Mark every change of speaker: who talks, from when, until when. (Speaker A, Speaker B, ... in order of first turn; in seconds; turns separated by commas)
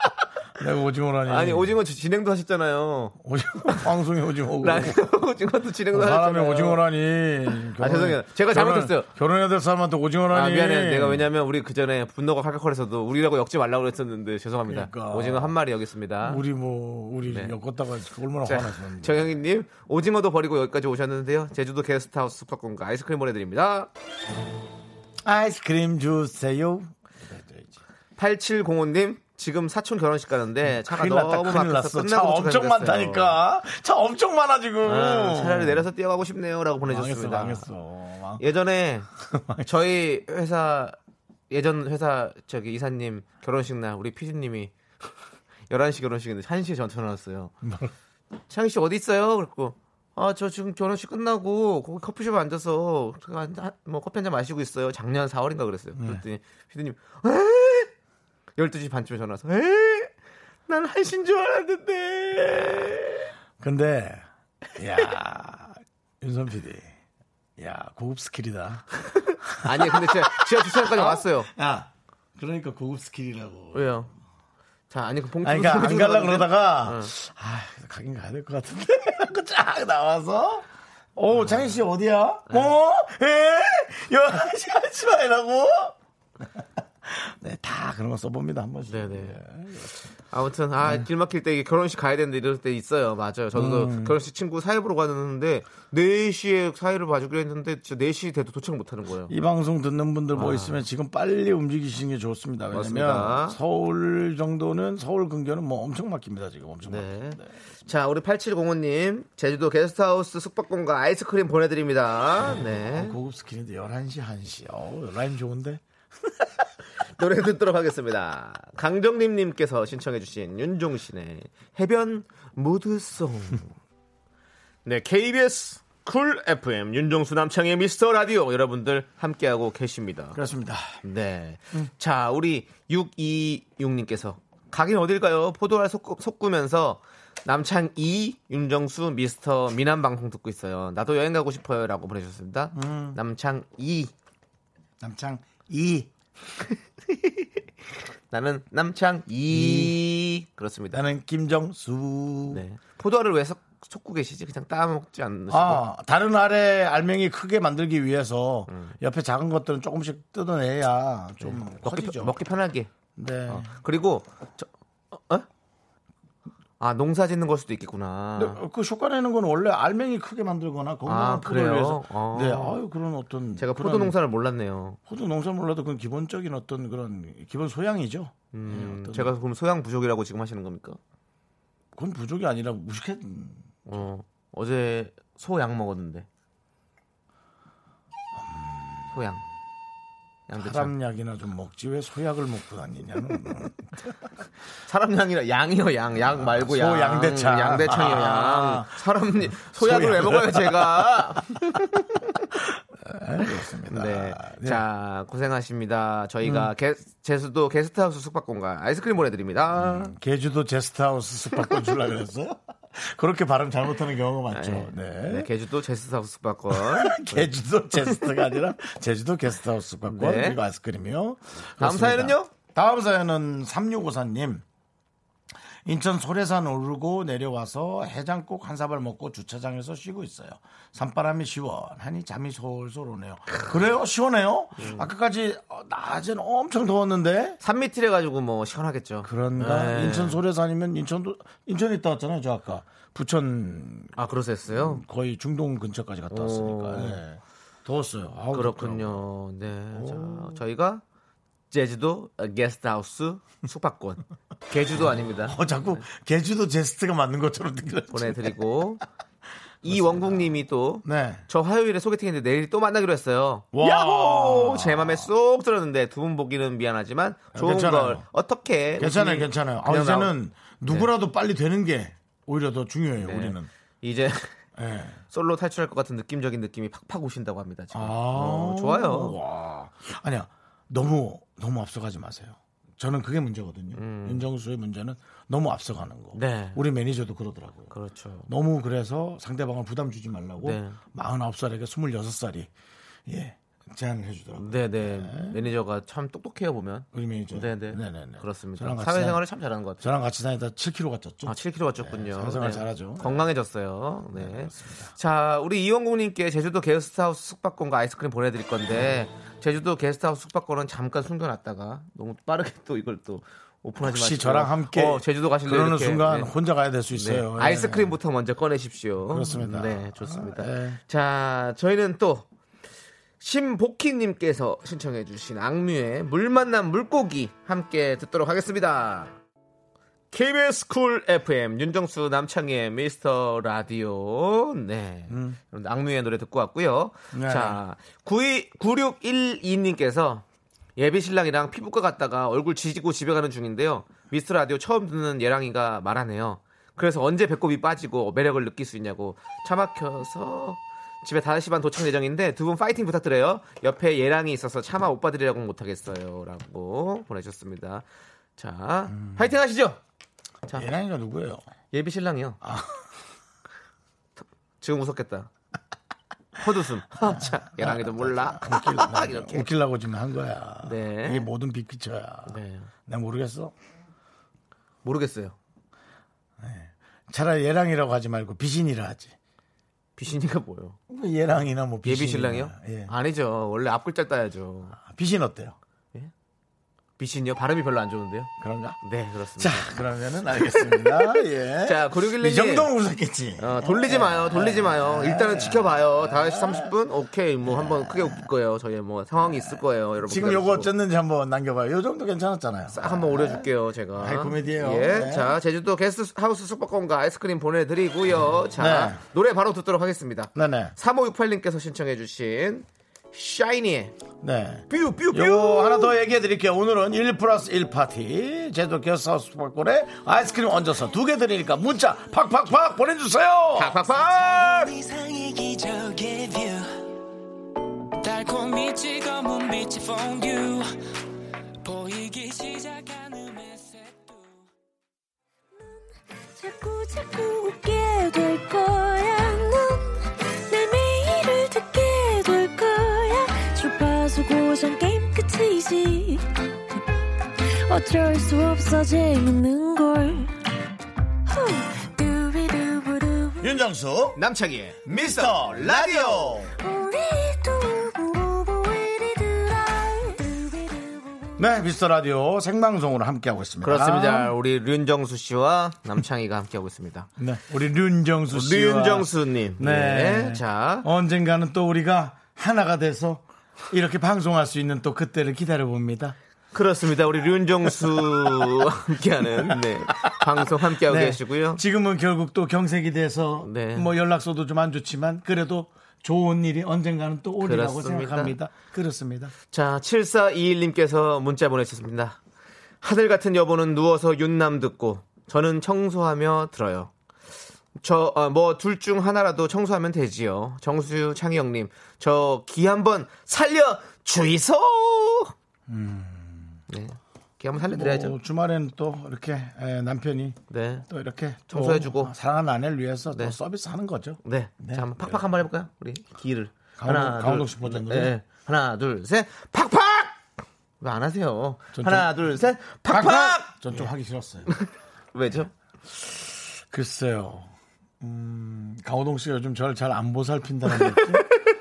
Speaker A: 0.6-1.8, Speaker B: 1.2-3.9, Speaker A: 3.2-5.0, Speaker B: 4.6-6.8, Speaker A: 5.9-11.3, Speaker B: 7.8-9.1, Speaker B: 10.3-16.4, Speaker A: 14.7-15.6, Speaker A: 16.2-19.4, Speaker B: 17.2-17.6, Speaker B: 18.4-23.9, Speaker A: 25.2-27.8, Speaker B: 28.2-33.4, Speaker A: 30.6-35.9, Speaker B: 34.9-37.7, Speaker A: 36.8-38.4, Speaker B: 38.4-39.1, Speaker A: 39.2-39.7, Speaker B: 39.6-41.0, Speaker B: 41.5-44.7, Speaker B: 45.7-47.5, Speaker A: 47.6-47.9, Speaker B: 48.5-57.9, Speaker A: 56.0-56.2, Speaker B: 58.6-60.1, Speaker B: 60.7-63.3, Speaker A: 63.6-66.9, Speaker A: 67.6-74.1, Speaker B: 69.6-71.5, Speaker B: 73.7-74.1, Speaker B: 74.9-77.1, Speaker A: 75.4-85.9, Speaker B: 81.3-81.8, Speaker A: 86.5-90.1, Speaker B: 88.9-89.4, Speaker B: 90.3-99.3, Speaker A: 90.8-91.1, Speaker A: 93.5-94.2, Speaker A: 99.3-107.5, Speaker B: 100.3-100.8, Speaker B: 102.7-103.6, Speaker B: 106.8-113.2, Speaker A: 112.9-115.8, Speaker B: 117.0-123.7, Speaker B: 124.8-130.4, Speaker A: 130.3-130.9, Speaker B: 131.0-144.1, Speaker A: 142.8-143.2, Speaker A: 145.0-146.1, Speaker B: 148.3-151.0, Speaker A: 149.5-150.0, Speaker A: 150.9-152.6, Speaker B: 152.5-155.8, Speaker A: 155.5-162.4, Speaker B: 158.7-159.0, Speaker B: 161.4-162.9, Speaker A: 163.2-163.7, Speaker B: 163.5-165.5, Speaker B: 166.8-168.6, Speaker A: 168.3-174.2, Speaker B: 171.1-172.8, Speaker B: 173.6-175.0, Speaker A: 175.1-179.3, Speaker B: 178.5-181.0, Speaker A: 181.9-184.0, Speaker B: 183.9-186.3, Speaker A: 188.3-189.2, Speaker B: 189.1-189.4, Speaker B: 190.5-190.9, Speaker A: 190.6-193.9, Speaker B: 194.9-202.3, Speaker A: 196.3-199.0, Speaker A: 199.5-201.7, Speaker A: 202.6-204.8, Speaker B: 203.9-210.1, Speaker A: 206.4-206.7, Speaker A: 209.8-215.5, Speaker B: 214.5-218.3, Speaker A: 216.7-224.6, Speaker B: 220.1-220.6, Speaker B: 221.8-222.5, Speaker A: 225.8-237.6, Speaker B: 234.8-235.1, Speaker B: 237.6-240.4, Speaker A: 239.2-244.1, Speaker B: 244.2-245.0, Speaker A: 244.7-249.3, Speaker B: 246.3-247.2, Speaker B: 248.5-251.0, Speaker A: 249.9-250.6, Speaker B: 251.7-256.0, Speaker A: 254.9-258.6, Speaker B: 258.1-259.0, Speaker B: 259.8-270.3, Speaker A: 259.8-261.4, Speaker A: 263.7-265.3, Speaker A: 267.5-268.2, Speaker A: 269.0-273.7, Speaker B: 270.8-271.1, Speaker B: 273.2-274.5, Speaker A: 274.8-275.2, Speaker B: 275.3-279.4, Speaker A: 277.9-287.9, Speaker B: 283.9-284.5, Speaker B: 286.3-286.8, Speaker B: 287.9-288.5, Speaker A: 288.5-292.7, Speaker B: 290.6-291.0, Speaker A: 293.3-295.6, Speaker B: 294.6-300.1, Speaker A: 297.1-299.4, Speaker A: 300.0-303.4, Speaker B: 301.4-316.5, Speaker A: 304.3-305.1, Speaker A: 314.0-318.2, Speaker B: 317.1-322.4, Speaker A: 319.3-321.0, Speaker B: 323.4-329.3, Speaker B: 330.3-340.4, Speaker A: 335.3-335.6, Speaker A: 337.3-337.8, Speaker B: 341.0-358.1, Speaker B: 358.6-360.0, Speaker A: 359.1-359.5, Speaker A: 360.7-361.6, Speaker B: 361.9-362.6, Speaker A: 362.6-363.0, Speaker B: 364.8-365.5, Speaker B: 366.6-369.7, Speaker A: 367.2-373.7, Speaker B: 370.8-371.5, Speaker B: 372.4-372.9, Speaker B: 375.0-375.6, Speaker A: 376.6-379.3, Speaker B: 380.2-381.0, Speaker A: 381.1-383.1, Speaker B: 382.0-385.0, Speaker A: 385.0-385.8, Speaker B: 387.2-388.5, Speaker A: 388.6-389.0, Speaker B: 389.0-389.9, Speaker A: 389.6-396.9, Speaker B: 390.6-391.3, Speaker B: 391.8-392.9, Speaker B: 393.6-400.9, Speaker A: 397.6-398.4, Speaker A: 399.4-405.6, Speaker B: 402.9-414.1, Speaker A: 408.8-409.2, Speaker A: 410.6-410.9, Speaker A: 414.4-424.0, Speaker B: 414.9-416.1, Speaker B: 423.8-424.9, Speaker C: 424.6-426.9, Speaker C: 428.2-430.9, Speaker C: 431.8-434.7, Speaker D: 435.8-446.4, Speaker D: 447.9-450.5, Speaker D: 451.5-453.7, Speaker A: 453.6-454.4, Speaker B: 454.4-456.7, Speaker A: 455.1-456.7, Speaker D: 456.8-461.7, Speaker A: 461.6-464.5, Speaker B: 463.8-467.3, Speaker A: 467.4-476.4, Speaker B: 468.5-471.1, Speaker B: 476.7-481.8, Speaker A: 479.7-489.5, Speaker B: 483.6-484.1, Speaker B: 487.6-488.6, Speaker B: 489.7-492.4, Speaker B: 493.0-497.1, Speaker B: 498.0-505.5, Speaker A: 505.9-506.8, Speaker B: 506.9-508.4, Speaker A: 507.8-515.5, Speaker B: 510.7-511.1, Speaker B: 511.7-512.3, Speaker B: 514.4-520.4, Speaker A: 517.0-518.3, Speaker B: 521.0-524.1, Speaker A: 521.9-522.5, Speaker A: 523.1-524.7, Speaker B: 524.7-525.7, Speaker A: 526.1-531.5, Speaker B: 530.9-531.4